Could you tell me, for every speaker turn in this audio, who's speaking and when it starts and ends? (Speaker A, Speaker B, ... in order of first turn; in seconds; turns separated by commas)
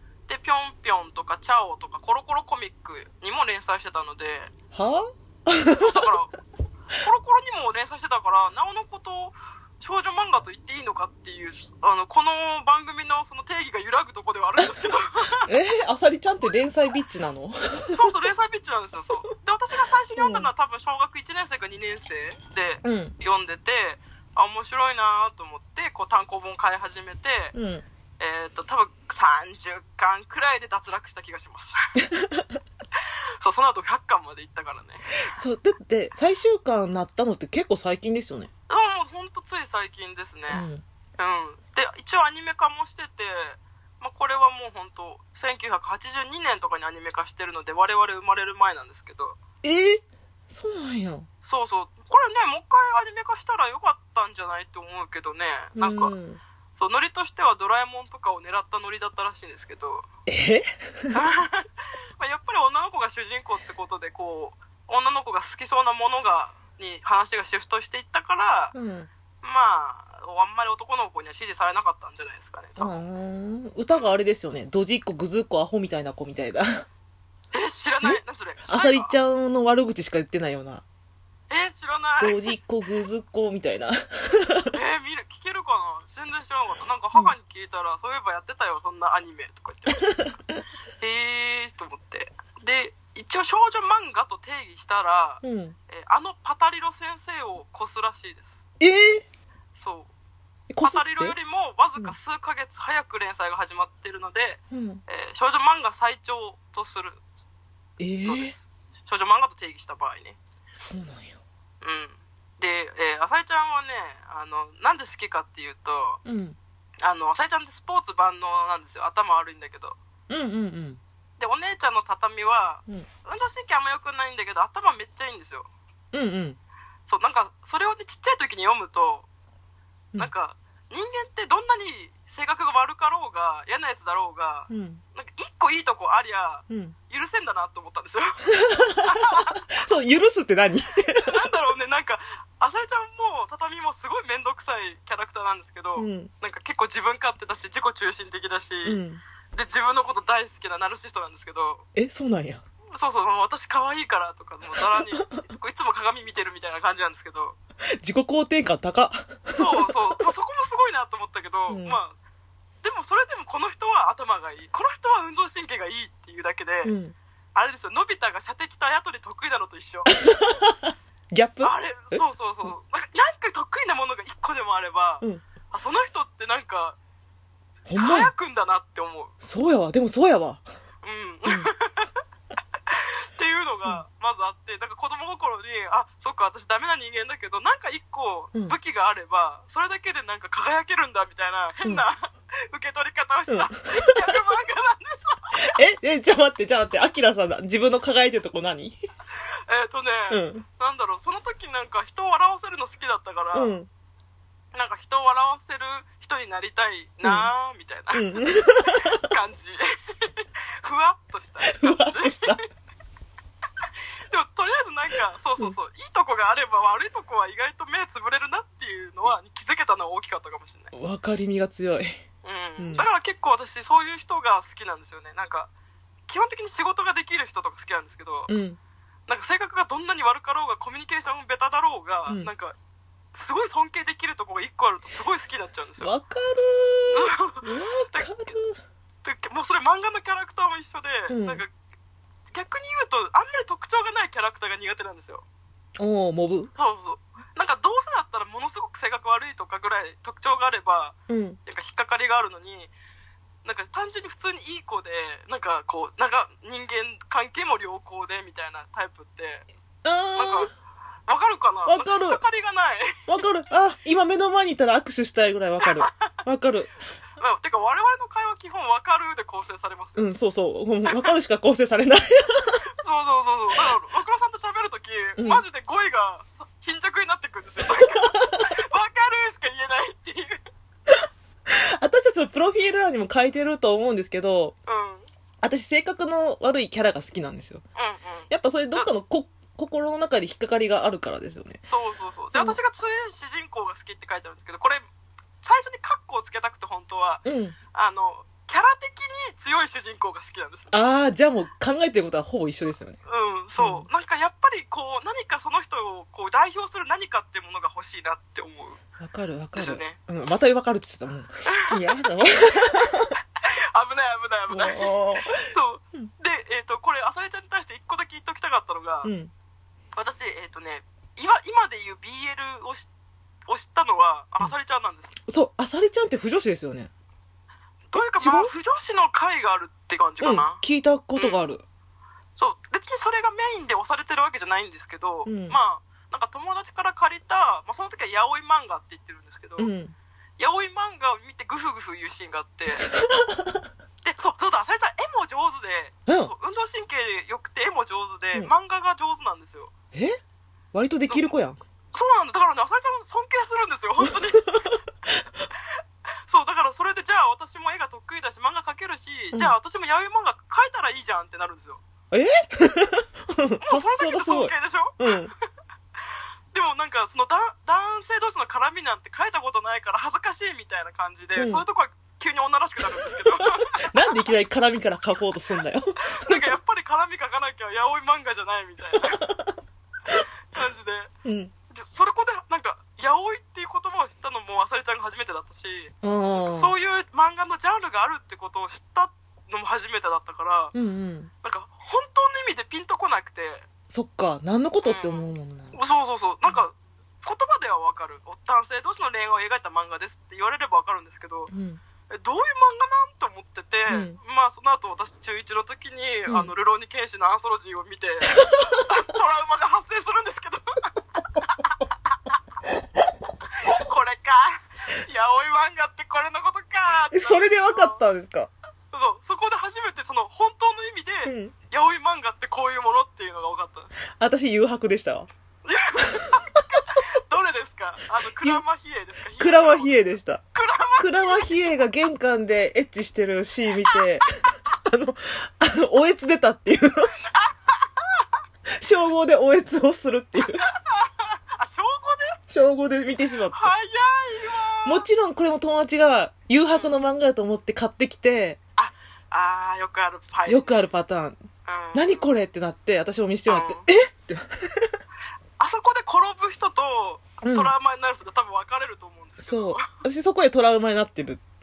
Speaker A: 0.3-4.5, Speaker B: 4.7-6.2, Speaker A: 5.8-6.3, Speaker A: 7.0-15.5, Speaker B: 15.5-18.1, Speaker A: 17.9-27.5, Speaker B: 20.2-20.5, Speaker B: 22.8-23.1, Speaker B: 27.5-27.8, Speaker A: 28.2-31.8, Speaker B: 32.2-32.4, Speaker A: 33.4-35.0, Speaker B: 35.2-38.5, Speaker A: 38.7-40.7, Speaker B: 40.5-40.8, Speaker A: 41.2-49.4, Speaker B: 49.6-51.3, Speaker A: 51.4-56.1, Speaker B: 55.8-56.4, Speaker A: 56.8-60.1, Speaker B: 60.3-61.1, Speaker A: 61.1-68.7, Speaker B: 68.7-69.1, Speaker A: 69.4-72.9, Speaker B: 72.8-76.8, Speaker A: 77.5-79.1, Speaker B: 78.0-80.8, Speaker A: 81.5-82.5, Speaker B: 82.2-84.7, Speaker A: 84.7-90.3, Speaker A: 91.0-98.6, Speaker B: 95.4-95.8, Speaker B: 98.8-99.2, Speaker A: 99.8-100.1, Speaker B: 100.7-101.3, Speaker A: 100.8-107.2, Speaker B: 104.7-105.0, Speaker B: 108.0-108.6, Speaker A: 108.2-110.4, Speaker B: 110.8-111.4, Speaker A: 111.8-116.2, Speaker B: 116.2-116.6, Speaker A: 117.0-120.0, Speaker B: 120.3-121.0, Speaker A: 121.4-125.7, Speaker B: 126.1-126.6, Speaker A: 127.1-129.3, Speaker A: 130.2-139.6, Speaker B: 134.7-135.0, Speaker B: 136.7-137.0, Speaker B: 138.6-141.4, Speaker A: 141.2-149.0, Speaker B: 146.0-146.3, Speaker B: 148.8-149.2, Speaker A: 149.5-151.8, Speaker B: 151.9-152.6, Speaker A: 152.9-157.6, Speaker B: 158.0-159.9, Speaker A: 159.5-162.2, Speaker B: 161.7-162.0, Speaker A: 162.8-166.9, Speaker B: 166.8-167.2, Speaker A: 167.6-170.2, Speaker B: 170.1-172.7, Speaker A: 171.6-177.0, Speaker B: 177.9-178.3, Speaker A: 177.9-179.3, Speaker B: 179.4-180.7, Speaker A: 181.0-182.1, Speaker A: 182.9-195.6, Speaker B: 193.5-194.3, Speaker B: 195.6-199.0, Speaker A: 199.7-203.7, Speaker B: 200.3-200.7, Speaker B: 203.5-203.9, Speaker A: 204.7-212.6, Speaker B: 207.2-207.5, Speaker B: 208.1-209.0, Speaker B: 211.6-212.6, Speaker A: 214.3-220.9, Speaker B: 220.9-222.2, Speaker A: 222.4-225.7, Speaker B: 222.8-223.1, Speaker A: 226.3-228.5, Speaker B: 228.5-228.8, Speaker A: 229.3-232.7, Speaker A: 233.3-236.1, Speaker B: 236.0-238.8, Speaker A: 237.1-238.5, Speaker A: 239.2-241.7, Speaker B: 241.3-241.6, Speaker A: 242.5-245.4, Speaker B: 246.0-246.7, Speaker A: 246.8-252.9, Speaker B: 251.3-251.6, Speaker A: 253.6-259.7, Speaker B: 260.0-260.7, Speaker A: 260.4-260.7, Speaker A: 261.3-263.2, Speaker B: 261.9-262.4, Speaker B: 263.3-266.9, Speaker A: 267.4-270.2, Speaker B: 270.1-272.8, Speaker A: 273.0-280.6, Speaker B: 275.4-275.6, Speaker B: 282.0-284.8, Speaker A: 284.9-285.3, Speaker B: 285.6-287.8, Speaker A: 287.9-289.1, Speaker B: 288.5-291.8, Speaker A: 291.9-295.0, Speaker B: 292.5-292.8, Speaker A: 295.6-300.9, Speaker B: 297.4-297.8, Speaker B: 300.9-303.2, Speaker A: 303.2-309.0, Speaker B: 303.8-304.1, Speaker B: 309.2-313.3, Speaker A: 309.8-310.2, Speaker A: 313.9-319.3, Speaker B: 314.7-315.5, Speaker B: 319.2-319.5, Speaker A: 320.1-323.1, Speaker A: 323.7-325.3, Speaker B: 325.5-327.1, Speaker A: 328.1-330.8, Speaker B: 328.1-328.7, Speaker B: 330.4-331.8, Speaker A: 331.4-331.6, Speaker A: 332.6-339.9, Speaker B: 335.4-335.8, Speaker B: 339.8-340.1, Speaker A: 340.6-343.1, Speaker A: 344.2-349.9, Speaker B: 346.3-346.5, Speaker B: 350.1-350.4, Speaker B: 350.9-351.8, Speaker A: 352.1-354.7, Speaker A: 356.5-362.0, Speaker B: 362.3-365.5, Speaker A: 363.8-365.4, Speaker A: 366.7-374.0, Speaker B: 371.6-371.8, Speaker B: 374.1-376.7, Speaker A: 376.2-379.4, Speaker B: 379.4-379.7, Speaker A: 380.7-381.3, Speaker B: 381.4-381.7, Speaker A: 381.9-390.9, Speaker B: 386.2-386.9, Speaker B: 390.9-391.5, Speaker A: 391.6-393.9, Speaker B: 394.1-396.0, Speaker A: 395.0-401.7, Speaker B: 401.7-402.0, Speaker A: 402.3-410.8, Speaker B: 404.1-404.4, Speaker A: 411.6-411.9, Speaker A: 413.8-418.2, Speaker B: 417.3-418.7, Speaker A: 419.1-424.2, Speaker B: 421.4-421.8, Speaker B: 424.4-425.5, Speaker A: 425.9-431.7, Speaker B: 429.6-430.6, Speaker B: 431.2-434.5, Speaker B: 435.1-437.3, Speaker A: 437.5-438.4, Speaker B: 439.0-440.8, Speaker A: 440.8-442.6, Speaker B: 442.7-443.9, Speaker A: 443.7-445.2, Speaker B: 445.0-448.8, Speaker A: 446.9-447.2, Speaker A: 449.0-451.0, Speaker B: 450.6-451.6, Speaker A: 451.9-452.5, Speaker B: 452.1-455.1, Speaker A: 453.7-454.1, Speaker A: 455.8-460.1, Speaker B: 457.6-457.9, Speaker B: 459.6-461.6